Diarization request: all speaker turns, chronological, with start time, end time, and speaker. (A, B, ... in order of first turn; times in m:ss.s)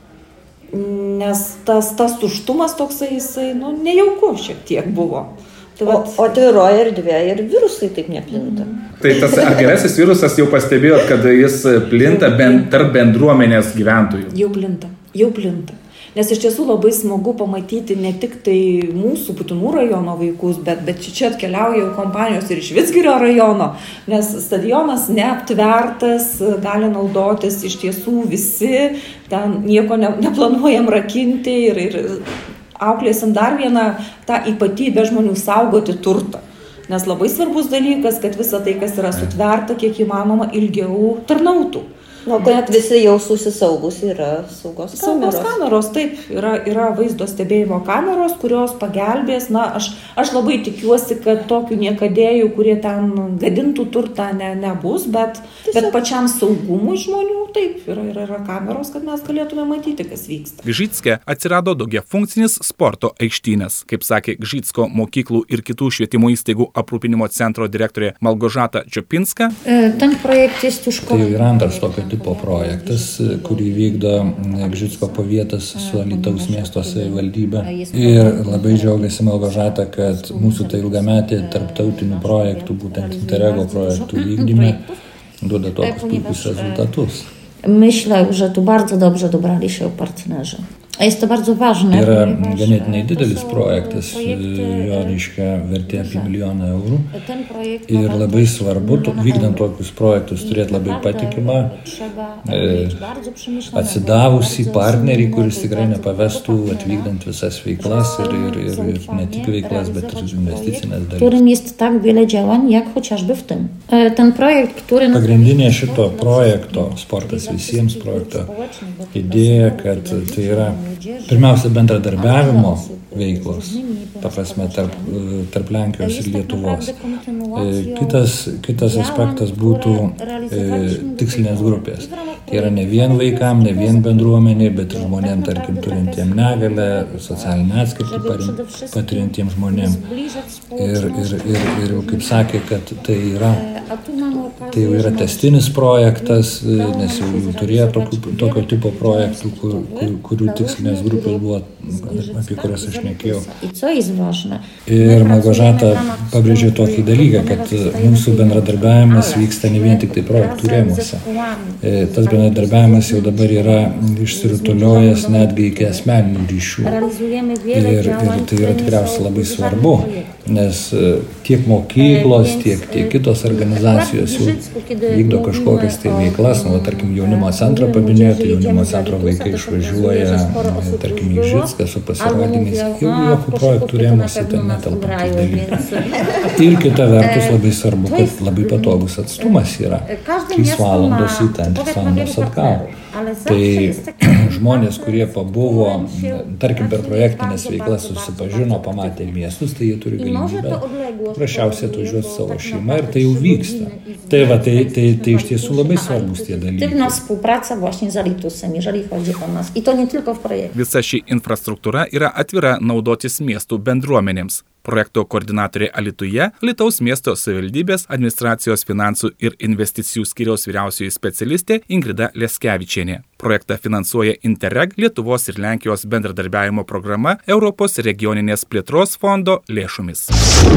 0:00.7-0:06.3 A
0:05.8-0:09.7 B
0:08.3-0:08.6 A
0:09.0-0:14.3 C
0:12.0-0:12.7 B
0:14.3-0:32.2 A
0:32.8-0:41.8 A
0:42.2-0:45.6 B
0:44.9-1:00.6 A
0:55.6-0:56.0 B
1:00.6-1:09.5 C
1:09.6-1:25.0 D
1:11.0-1:24.8 E
1:25.4-1:27.3 E
1:25.8-1:27.0 D
1:27.6-1:35.2 D
1:31.9-1:37.1 E
1:35.8-1:36.3 D
1:37.1-1:39.7 D
1:37.9-1:41.7 E
1:40.4-1:47.1 D
1:42.4-1:43.0 E
1:43.7-1:51.4 E
1:47.8-2:01.6 D
1:55.1-1:58.5 E
1:59.1-2:07.0 E
2:02.1-2:05.2 D
2:06.0-2:22.5 D
2:07.5-2:20.0 E
2:20.8-2:23.7 E
2:23.4-2:46.1 D
2:24.7-2:33.5 E
2:34.8-2:41.2 E
2:41.8-2:47.0 E
2:46.8-2:50.3 D
2:47.7-3:05.8 E
2:52.0-3:19.4 D
3:06.4-3:12.9 E
3:13.4-3:27.2 E
3:20.2-3:30.7 D
3:30.7-3:50.3 C